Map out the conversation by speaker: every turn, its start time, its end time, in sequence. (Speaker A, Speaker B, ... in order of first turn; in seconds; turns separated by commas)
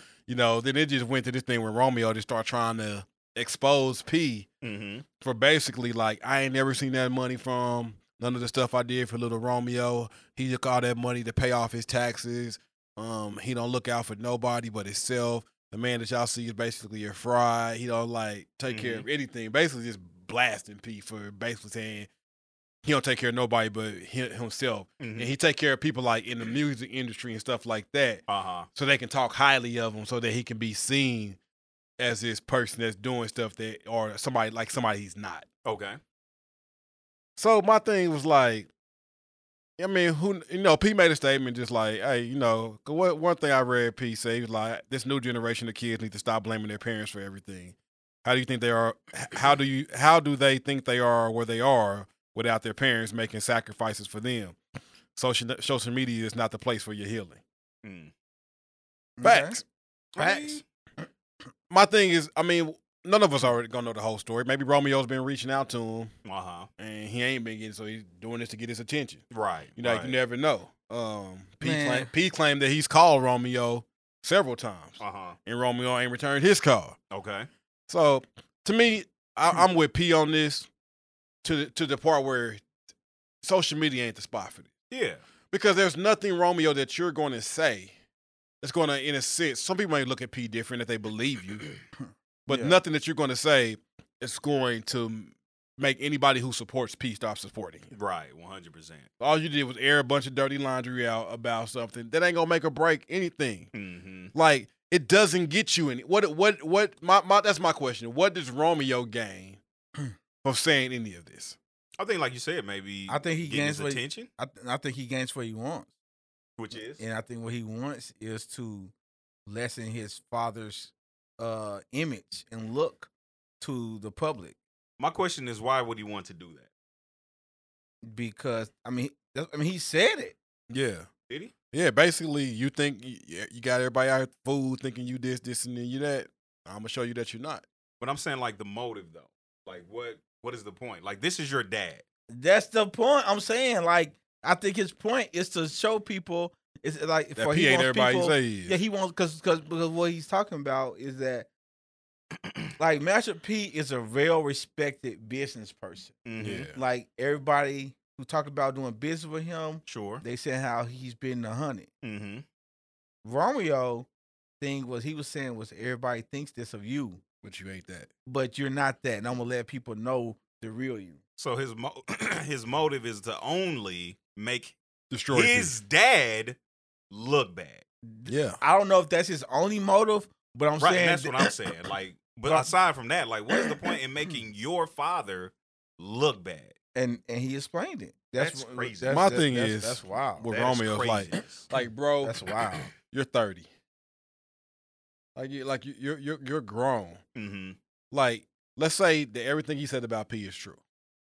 Speaker A: 0.3-4.5, Speaker B: 4.6-5.1, Speaker A: 5.2-22.1, Speaker B: 18.7-19.1, Speaker A: 22.8-28.2, Speaker B: 25.0-25.3, Speaker B: 28.3-28.7, Speaker A: 28.8-31.4, Speaker A: 32.0-35.5, Speaker B: 35.6-36.0, Speaker A: 37.4-38.7, Speaker A: 39.8-54.6, Speaker A: 55.1-57.4, Speaker B: 57.8-58.1, Speaker C: 59.2-59.6, Speaker A: 59.2-59.6, Speaker B: 60.1-60.6, Speaker C: 60.2-60.6, Speaker A: 61.7-66.1, Speaker B: 66.2-66.7, Speaker A: 66.8-69.2, Speaker B: 69.3-70.2, Speaker A: 69.8-77.0, Speaker C: 71.6-72.1, Speaker B: 75.0-75.4, Speaker B: 77.1-77.5, Speaker A: 77.9-80.7, Speaker A: 81.4-82.7, Speaker A: 83.4-84.7, Speaker B: 84.9-85.2, Speaker A: 85.5-88.0, Speaker A: 88.6-91.7, Speaker A: 92.5-97.9, Speaker C: 92.5-92.8, Speaker B: 97.9-99.1, Speaker A: 99.2-103.7, Speaker B: 103.7-104.3, Speaker A: 104.3-109.6, Speaker A: 110.4-111.6, Speaker B: 112.0-114.3, Speaker C: 113.1-115.9, Speaker B: 116.6-117.0, Speaker C: 117.0-118.9, Speaker C: 119.5-124.6, Speaker B: 125.0-126.7, Speaker C: 128.0-130.4, Speaker A: 130.7-131.1, Speaker A: 131.7-137.7, Speaker B: 138.0-142.0, Speaker C: 142.3-151.5, Speaker A: 147.4-148.8, Speaker C: 152.8-156.2, Speaker B: 156.3-156.7, Speaker A: 156.4-156.8, Speaker C: 156.8-161.9, Speaker B: 159.9-160.2, Speaker B: 162.0-162.4, Speaker C: 163.2-164.1, Speaker C: 164.6-167.2, Speaker A: 167.4-168.1, Speaker C: 168.3-171.2, Speaker B: 171.4-174.8, Speaker A: 175.1-175.8, Speaker B: 175.3-176.6, Speaker B: 177.1-177.8, Speaker C: 178.1-181.5, Speaker A: 178.3-178.6, Speaker B: 180.8-186.8, Speaker C: 186.9-190.5, Speaker B: 188.4-189.3, Speaker A: 189.1-192.4, Speaker B: 190.5-191.7, Speaker C: 192.2-192.9, Speaker A: 193.0-193.7, Speaker A: 195.3-197.2, Speaker B: 197.4-197.8, Speaker A: 198.1-200.8